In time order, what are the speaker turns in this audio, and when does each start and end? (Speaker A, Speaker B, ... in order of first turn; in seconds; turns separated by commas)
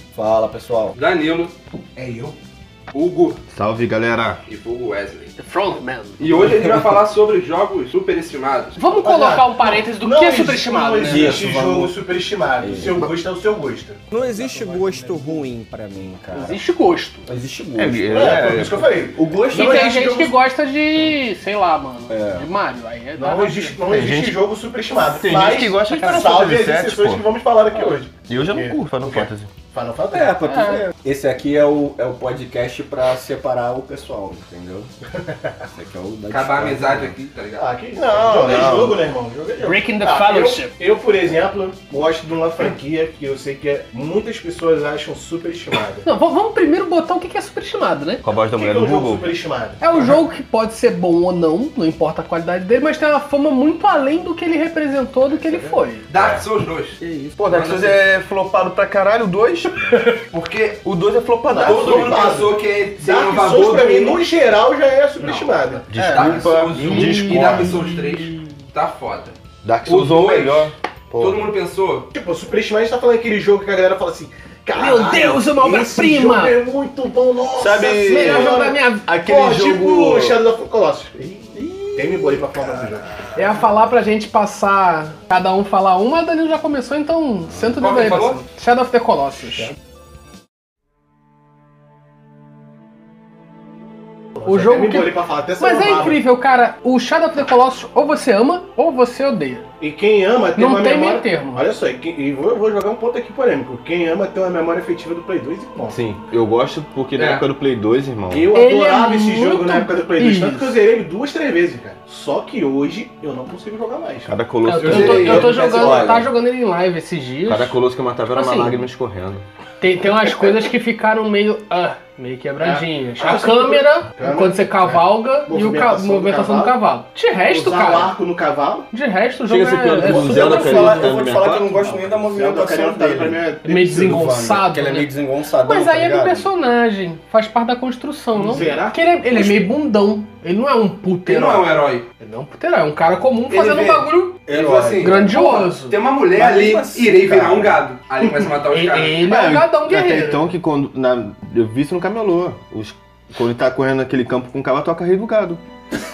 Speaker A: 0.1-1.0, Speaker B: 1.0-1.6, Speaker C: 2.0-2.4, Speaker B: 2.9-3.4, Speaker D: 3.5-4.4, Speaker B: 4.5-5.3, Speaker E: 5.4-6.3, Speaker B: 6.2-8.8, Speaker E: 8.8-11.5, Speaker C: 9.0-15.5, Speaker A: 11.1-12.0, Speaker A: 12.6-13.1, Speaker A: 14.1-16.6, Speaker E: 16.3-17.3, Speaker A: 17.3-20.2, Speaker D: 17.8-18.9, Speaker C: 18.1-20.3, Speaker E: 19.5-23.8, Speaker A: 22.1-22.5, Speaker C: 23.2-30.5, Speaker D: 23.9-24.4, Speaker D: 25.0-27.3, Speaker E: 25.9-26.5, Speaker D: 28.3-29.5, Speaker A: 30.1-34.9, Speaker E: 30.4-30.9, Speaker C: 35.1-35.5, Speaker A: 35.6-37.2, Speaker B: 36.3-37.7, Speaker C: 37.6-46.1, Speaker D: 38.0-39.0, Speaker B: 38.3-38.8, Speaker E: 39.6-40.8, Speaker E: 46.0-48.2, Speaker D: 48.2-49.3, Speaker C: 48.6-50.1, Speaker E: 49.8-56.1, Speaker B: 56.1-57.0, Speaker D: 56.1-56.5, Speaker A: 57.0-57.4, Speaker D: 57.4-60.1, Speaker B: 57.5-58.0, Speaker E: 59.9-60.2, Speaker B: 60.3-60.8, Speaker D: 60.8-62.4, Speaker C: 61.5-66.3, Speaker B: 61.5-64.2, Speaker B: 65.2-69.3, Speaker E: 65.9-68.6, Speaker D: 65.9-67.8, Speaker D: 69.6-71.5, Speaker B: 69.9-72.1, Speaker C: 72.1-83.7, Speaker E: 74.7-76.6, Speaker D: 77.6-80.4, Speaker E: 78.0-79.1, Speaker A: 81.5-82.4, Speaker E: 83.4-89.7, Speaker B: 87.8-88.4, Speaker C: 94.3-96.2, Speaker E: 94.5-99.7, Speaker C: 99.8-106.0, Speaker E: 100.6-101.7, Speaker D: 105.9-108.5, Speaker B: 107.2-107.5, Speaker C: 108.3-114.3, Speaker E: 108.5-110.8, Speaker D: 114.3-115.4, Speaker E: 114.7-118.8, Speaker B: 114.8-115.5, Speaker C: 114.9-116.2, Speaker A: 115.1-116.3, Speaker D: 117.5-119.4, Speaker E: 119.8-128.1, Speaker C: 122.6-126.8, Speaker C: 127.5-128.9, Speaker E: 128.9-131.1, Speaker D: 129.5-131.7, Speaker A: 129.5-136.5, Speaker C: 131.6-134.2, Speaker E: 133.6-144.4, Speaker C: 138.4-139.0, Speaker A: 138.5-139.7, Speaker B: 141.3-142.1, Speaker B: 143.5-149.2, Speaker A: 144.4-145.6, Speaker E: 145.0-146.0, Speaker A: 146.3-147.7, Speaker E: 148.7-150.5, Speaker D: 149.2-155.6